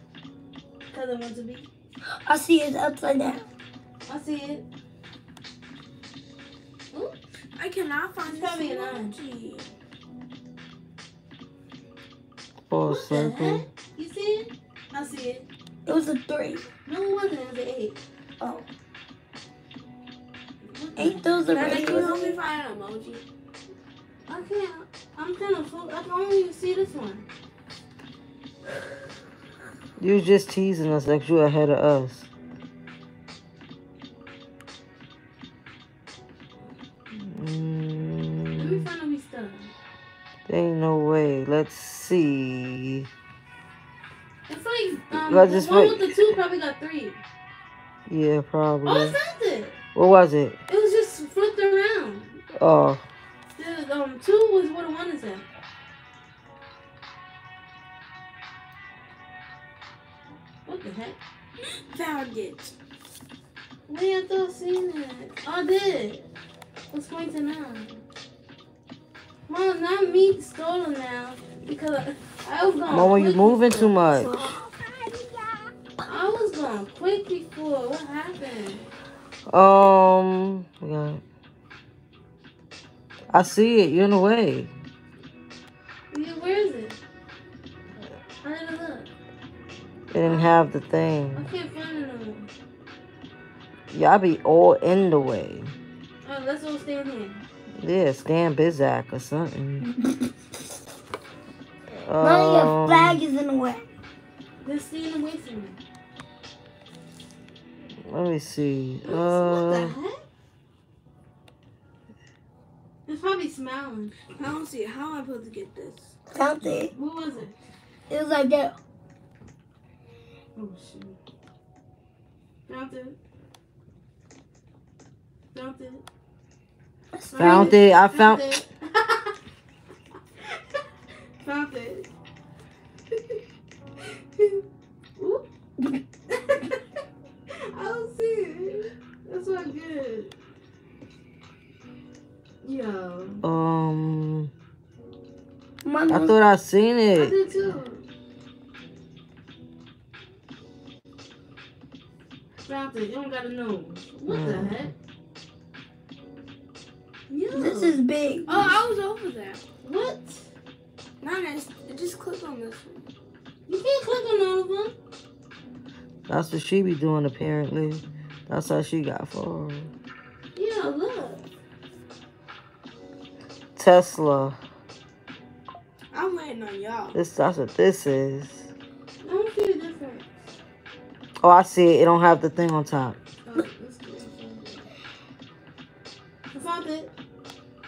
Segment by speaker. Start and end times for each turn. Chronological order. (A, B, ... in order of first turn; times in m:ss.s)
0:00.9-0:01.7 A
0:02.2-0:03.4 B
0:04.1-0:04.6 A
0:06.9-0:07.2 A
0:07.6-0:09.7 C
0:08.2-0:09.1 A
0:12.7-0:13.6 D
0:12.9-0:15.4 A
0:15.8-0:16.7 B
0:16.8-0:18.0 A
0:18.4-0:18.7 B
0:20.7-0:22.4 A
0:21.0-0:22.2 B
0:21.5-0:23.2 C
0:24.3-0:27.3 A
0:30.0-0:32.3 D
0:37.2-0:38.8 D
0:38.6-0:39.7 A
0:40.5-0:43.1 D
0:44.5-0:47.2 A
0:45.1-0:46.2 D
0:48.1-0:49.2 D
0:48.8-0:49.8 A
0:49.9-0:50.6 D
0:50.7-0:52.4 A
0:52.6-0:53.0 D
0:53.6-0:55.4 A
1:00.6-1:01.2 A
1:01.6-1:02.7 C
1:03.9-1:06.3 A
1:06.9-1:08.0 A
1:09.5-1:14.0 A
1:12.9-1:14.3 D
1:14.1-1:15.4 B
1:16.0-1:18.9 A
1:19.5-1:21.2 D
1:23.3-1:24.7 D
1:26.1-1:27.0 A
1:28.4-1:29.1 A
1:30.1-1:31.5 D
1:30.2-1:30.7 A
1:31.3-1:32.5 A
1:33.9-1:35.7 D
1:36.2-1:37.4 A
1:37.8-1:39.9 D
1:42.0-1:43.2 D
1:42.2-1:43.9 B
1:44.6-1:45.8 A
1:48.1-1:49.9 D
1:49.0-1:50.2 A
1:53.1-1:54.3 A
1:54.3-1:56.1 C
1:56.3-1:56.9 B
1:56.6-1:57.5 A
1:58.1-1:58.8 B
2:00.6-2:01.2 A
2:02.7-2:03.2 A
2:05.5-2:06.0 A
2:07.1-2:07.8 B
2:07.3-2:09.3 A
2:07.4-2:08.6 D
2:11.4-2:12.1 A
2:14.4-2:14.6 A
2:15.2-2:15.4 A
2:16.3-2:16.8 A
2:17.7-2:20.3 A
2:22.6-2:23.4 A
2:23.4-2:24.5 D
2:25.8-2:26.3 B
2:26.1-2:27.4 D
2:27.1-2:28.0 A
2:32.6-2:34.9 A
2:34.3-2:34.9 D
2:37.3-2:38.0 A
2:37.5-2:38.7 B
2:38.5-2:39.6 C
2:39.8-2:40.5 A
2:41.2-2:43.1 C
2:43.7-2:44.9 A
2:46.3-2:49.9 D
2:50.5-2:51.4 A
2:53.8-2:54.6 D
2:56.1-2:57.1 C
2:57.1-2:58.7 D
2:59.2-3:00.2 A
3:01.4-3:03.2 D
3:03.4-3:04.9 A
3:06.5-3:07.1 A